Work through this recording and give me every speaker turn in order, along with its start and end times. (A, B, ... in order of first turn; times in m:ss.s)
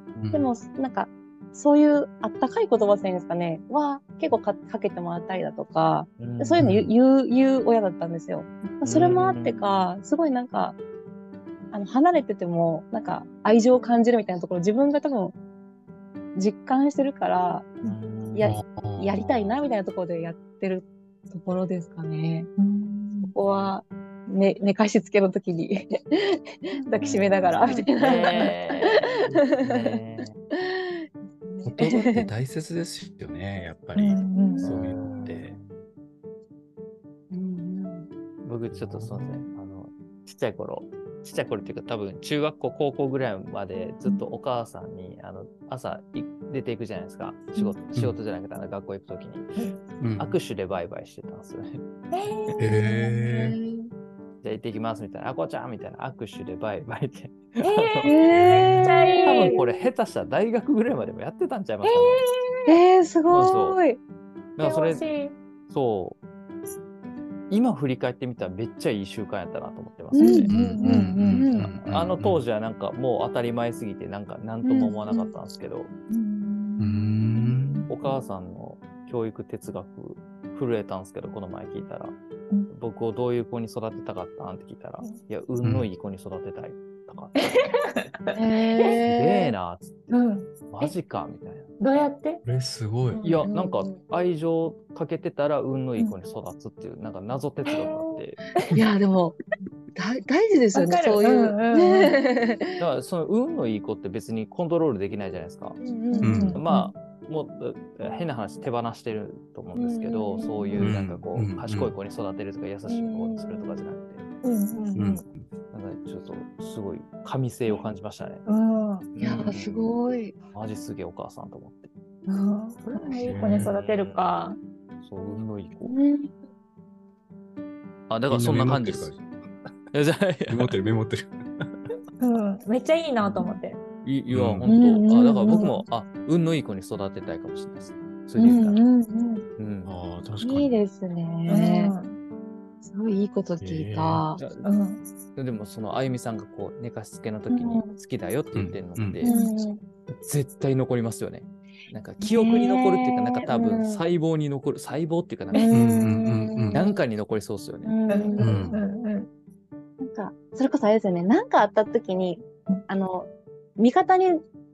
0:00.2-0:00.4 A
0:00.3-0:10.8 B
0:06.2-0:06.7 A
0:06.6-0:06.9 C
0:08.8-0:09.9 A
0:11.7-0:15.3 B
0:16.4-0:17.8 B
0:17.8-0:18.5 A
0:18.4-0:22.5 B
0:18.4-0:19.2 C
0:19.2-0:19.6 A
0:22.6-0:23.3 D
0:23.3-0:30.0 B
0:23.4-0:23.7 A
0:27.0-0:30.4 A
0:27.6-0:27.9 D
0:30.6-0:32.3 B
0:31.6-0:35.6 C
0:34.0-0:34.6 D
0:34.3-0:34.7 B
0:34.6-0:35.8 A
0:37.3-0:38.1 B
0:38.4-0:49.5 A
0:38.7-0:39.5 C
0:50.0-0:50.4 C
0:50.2-0:51.8 A
0:52.1-0:52.7 D
0:52.6-0:53.6 C
0:52.6-0:53.9 B
0:54.4-0:58.4 A
0:57.6-0:58.2 D
0:58.0-0:59.7 B
0:58.3-0:58.9 C
0:58.8-0:59.6 D
0:59.2-1:02.2 A
1:01.8-1:02.7 D
1:02.7-1:04.0 B
1:03.3-1:03.8 A
1:04.6-1:05.1 A
1:04.6-1:05.4 D
1:05.7-1:06.2 A
1:07.5-1:10.5 A
1:10.1-1:11.7 B
1:10.2-1:11.4 D
1:10.5-1:12.4 C
1:11.7-1:15.9 A
1:14.6-1:15.3 B
1:16.1-1:17.9 D
1:16.8-1:17.9 C
1:17.9-1:22.2 A
1:22.7-1:27.4 A
1:25.6-1:25.9 C
1:27.5-1:28.3 D
1:28.3-1:29.5 B
1:29.0-1:31.7 A
1:30.1-1:31.0 D
1:31.8-1:32.4 D
1:32.4-1:33.2 C
1:33.1-1:33.5 D
1:33.2-1:38.4 A
1:33.5-1:34.0 B
1:37.7-1:37.9 D
1:37.7-1:38.1 B
1:38.7-1:39.4 B
1:39.9-1:42.8 B
1:40.8-1:42.1 D
1:42.8-1:45.8 A
1:45.8-1:46.6 B
1:46.1-1:46.9 D
1:46.2-1:46.6 C
1:46.6-1:54.2 A
1:49.8-1:50.9 B
1:50.8-1:51.9 C
1:52.9-1:53.9 B
1:54.4-1:55.2 D
1:55.0-1:55.3 C
1:55.7-1:58.4 A
1:58.4-1:59.1 D
1:59.2-1:59.9 A
1:59.2-2:00.4 B
2:00.5-2:01.9 A
2:02.3-2:04.6 D
2:03.2-2:03.7 C
2:03.5-2:04.4 A
2:05.0-2:06.0 A
2:05.9-2:06.3 B
2:08.1-2:09.1 A
2:08.3-2:09.3 C
2:09.9-2:10.7 A
2:10.5-2:11.7 C
2:12.2-2:13.8 D
2:14.0-2:18.8 A
2:14.3-2:14.7 C
2:14.7-2:15.8 B
2:18.4-2:19.5 B
2:19.6-2:19.9 A
2:19.9-2:20.7 C
2:20.4-2:21.9 B
2:21.5-2:22.2 D
2:22.8-2:24.4 B
2:23.6-2:24.2 C
2:24.4-2:24.7 A
2:24.6-2:25.0 D
2:25.4-2:29.3 A
2:27.5-2:28.0 D
2:28.5-2:29.2 C
2:29.2-2:29.8 B
2:29.2-2:29.5 D
2:30.2-2:35.7 A
2:32.2-2:34.0 B
2:35.5-2:35.8 D
2:35.6-2:37.0 B
2:35.7-2:36.8 C
2:36.7-2:38.0 A
2:37.8-2:38.8 B
2:38.1-2:39.3 D
2:38.4-2:38.8 C
2:40.0-2:44.4 B